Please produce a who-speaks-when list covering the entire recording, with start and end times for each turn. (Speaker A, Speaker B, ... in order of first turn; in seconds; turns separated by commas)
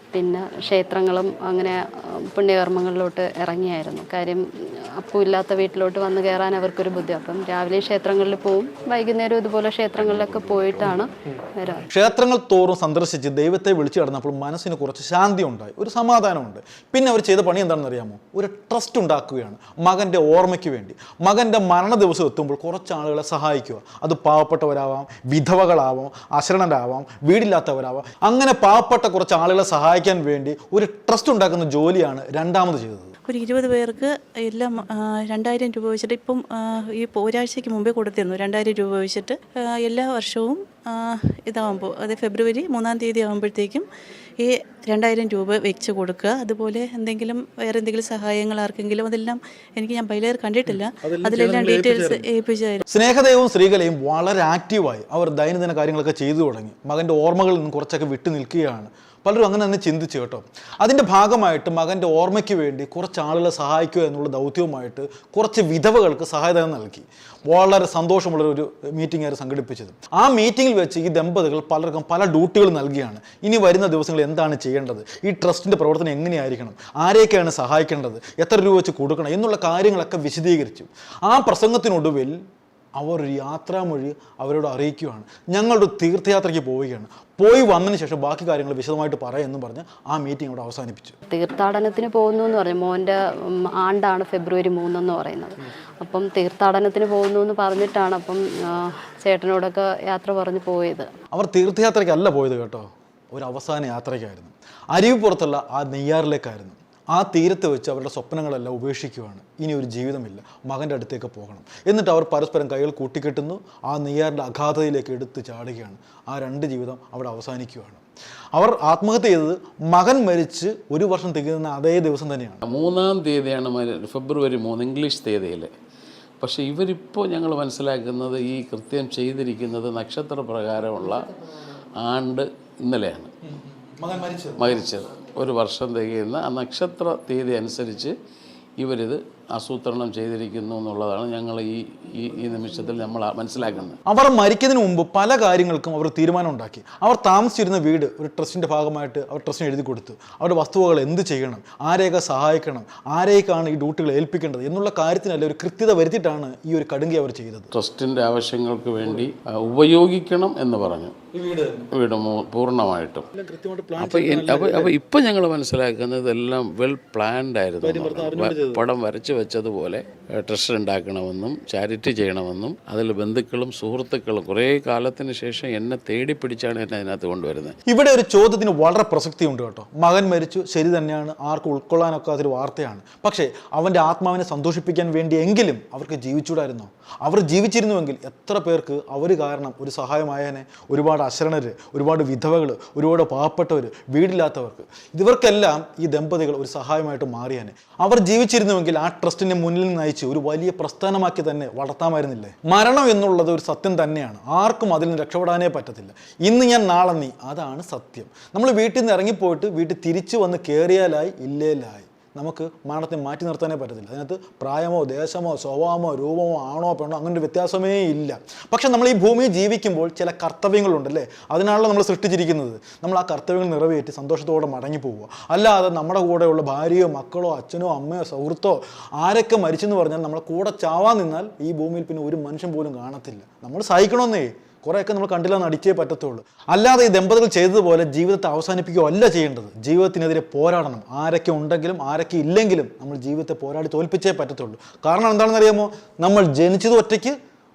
Speaker A: 0.1-11.8, Speaker B: 10.0-10.9, Speaker C: 11.9-33.1, Speaker D: 33.3-43.9, Speaker D: 44.4-52.8, Speaker C: 50.7-52.2, Speaker C: 52.9-82.4, Speaker C: 83.0-91.1, Speaker A: 91.3-101.1, Speaker C: 101.3-118.0, Speaker C: 118.5-122.6, Speaker B: 122.6-125.7, Speaker B: 126.4-133.3, Speaker C: 133.4-134.8, Speaker B: 134.6-138.1, Speaker B: 138.8-144.0, Speaker C: 144.1-157.7, Speaker B: 157.7-161.2, Speaker C: 161.3-161.9, Speaker B: 161.9-163.2, Speaker C: 163.3-164.9, Speaker B: 164.0-177.8, Speaker C: 167.8-168.8, Speaker C: 177.8-247.3